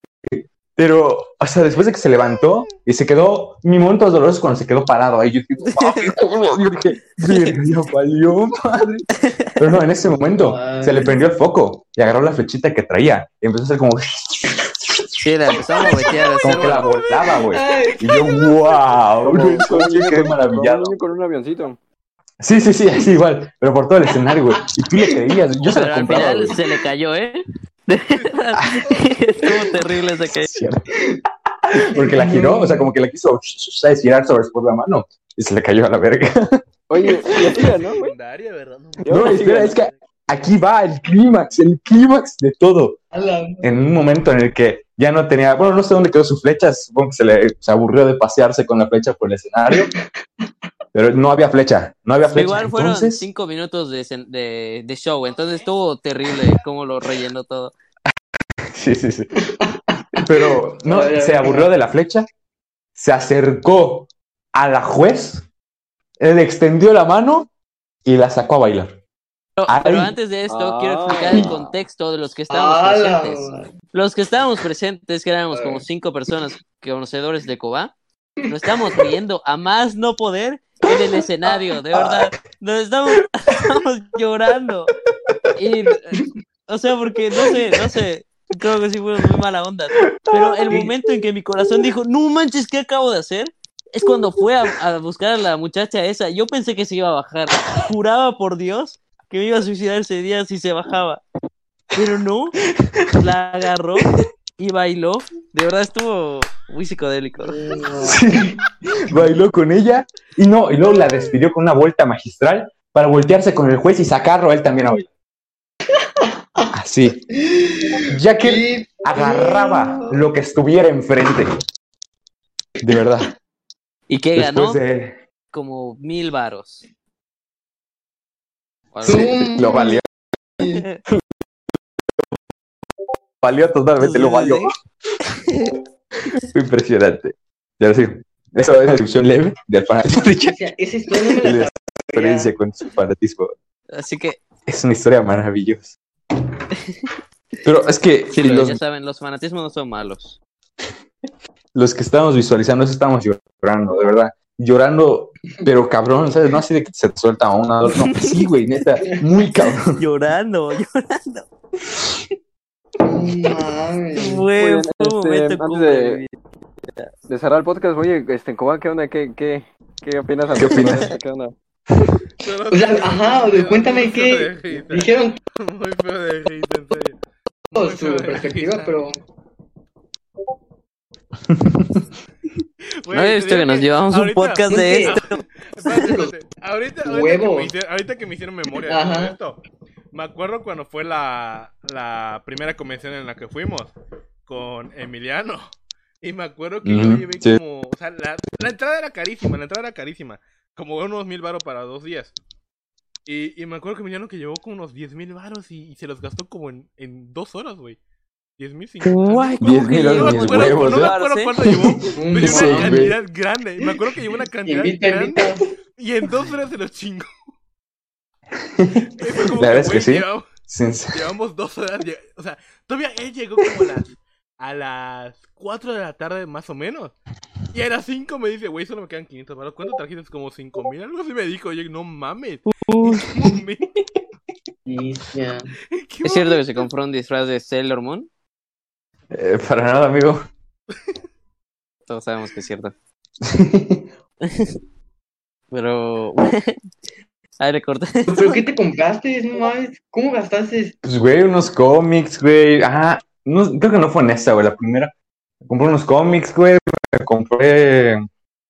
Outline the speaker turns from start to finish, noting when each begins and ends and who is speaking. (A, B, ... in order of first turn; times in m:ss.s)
0:00.3-0:15.0 A
0:05.6-0:06.1 B
0:07.2-0:07.5 B
0:09.2-0:09.5 B
0:10.2-0:11.3 C
0:15.2-0:16.9 B
0:16.4-0:18.8 C
0:16.4-0:20.9 A
0:19.2-0:21.8 D
0:22.4-0:26.6 A
0:24.2-0:25.4 C
0:25.6-0:30.5 B
0:28.1-0:29.1 E
0:30.2-0:30.9 A
0:31.7-0:36.6 A
0:31.9-0:32.9 C
0:36.9-0:38.1 D
0:37.3-0:37.6 A
0:37.8-0:40.0 E
0:39.0-0:39.8 D
0:39.1-0:43.0 A
0:43.1-0:43.7 C
0:43.6-0:49.9 A
0:49.7-0:49.9 C
0:50.9-0:53.2 A
0:52.3-0:57.7 B
0:58.7-0:59.3 A
0:59.5-1:01.7 C
1:00.1-1:02.3 A
1:03.0-1:05.5 A
1:06.2-1:07.5 A
1:08.0-1:09.0 A
1:09.6-1:17.9 B
1:09.7-1:10.1 A
1:10.5-1:11.5 D
1:12.5-1:13.7 C
1:15.5-1:15.8 C
1:18.5-1:24.9 B
1:23.1-1:23.6 A
1:25.6-1:41.2 B
1:27.4-1:28.0 A
1:30.2-1:30.9 A
1:41.9-1:42.6 B
1:42.8-1:43.1 A
1:43.1-1:47.6 B
1:47.4-1:48.3 C
1:48.0-1:55.1 A
1:56.2-1:56.7 C
1:56.7-1:57.2 A
1:57.3-2:00.2 C
1:58.1-2:01.5 A
2:02.8-2:03.3 A
2:04.1-2:04.8 B
2:04.4-2:05.2 A
2:05.5-2:06.8 B
2:08.9-2:09.4 B
2:09.0-2:10.0 A
2:09.0-2:10.0 C
2:10.6-2:10.8 C
2:10.7-2:11.0 B
2:13.4-2:14.7 A
2:14.0-2:14.7 B
2:15.5-2:15.7 B
2:16.4-2:20.6 A
2:20.4-2:22.5 C
2:21.3-2:23.5 A
2:23.9-2:24.4 B
2:24.6-2:26.0 A
2:27.6-2:28.8 A
2:28.3-2:30.4 B
2:31.7-2:40.0 A
2:37.8-2:38.4 B
2:40.0-2:41.5 B
2:43.0-2:44.5 C
2:44.1-2:46.3 B
2:44.5-2:46.2 D
2:47.3-2:51.5 D
2:50.5-2:51.1 A
2:52.4-2:57.2 E
2:52.7-2:55.4 C
2:57.7-2:59.0 E
2:57.7-2:59.2 C
3:01.5-3:02.0 A
3:03.0-3:09.6 E
3:03.1-3:06.0 B
3:04.7-3:05.2 C
3:05.8-3:06.3 C
3:07.0-3:07.7 C
3:08.9-3:09.4 C
3:10.1-3:13.9 E
3:14.4-3:22.3 E
3:16.8-3:17.6 A
3:23.2-3:28.0 E
3:28.6-3:35.4 E
3:29.0-3:31.5 B
3:29.6-3:33.2 A
3:32.1-3:33.1 C
3:34.6-3:35.7 C
3:36.0-3:37.3 E
3:38.6-3:41.2 A
3:39.2-3:40.5 E
3:41.1-3:47.1 E
3:47.7-3:53.9 E
3:52.7-3:53.3 B
3:54.8-3:55.7 C
3:55.9-3:56.9 E
3:56.2-3:58.3 B
3:59.3-4:00.4 A
4:02.1-4:02.9 B
4:03.4-4:04.0 A
4:04.4-4:04.7 B
4:05.7-4:06.8 B
4:07.6-4:08.6 B
4:08.3-4:11.0 C
4:11.0-4:15.1 A
4:15.6-4:18.2 A
4:15.8-4:16.2 E